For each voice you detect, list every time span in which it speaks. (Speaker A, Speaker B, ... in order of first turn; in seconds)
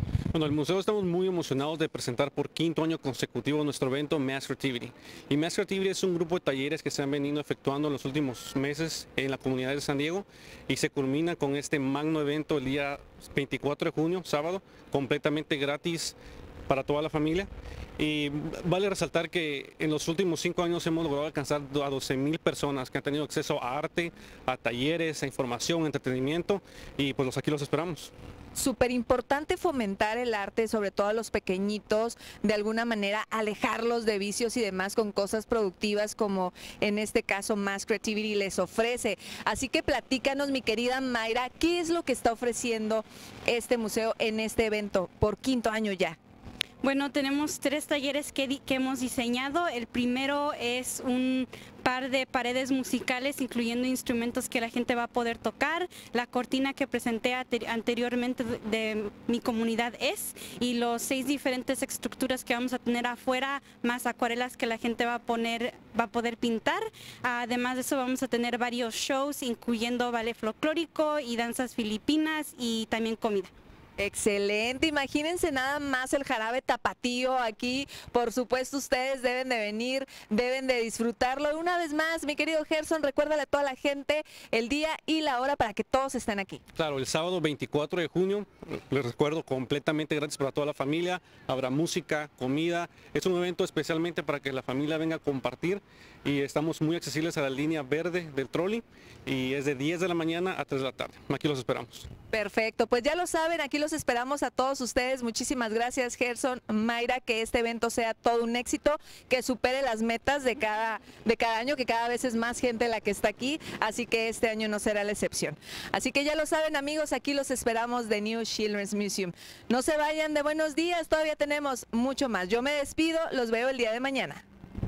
Speaker A: 0.3-28.1, 86.7-102.1
Speaker B: 28.5-46.2, 74.0-86.6, 102.3-124.4
Speaker C: 46.8-73.5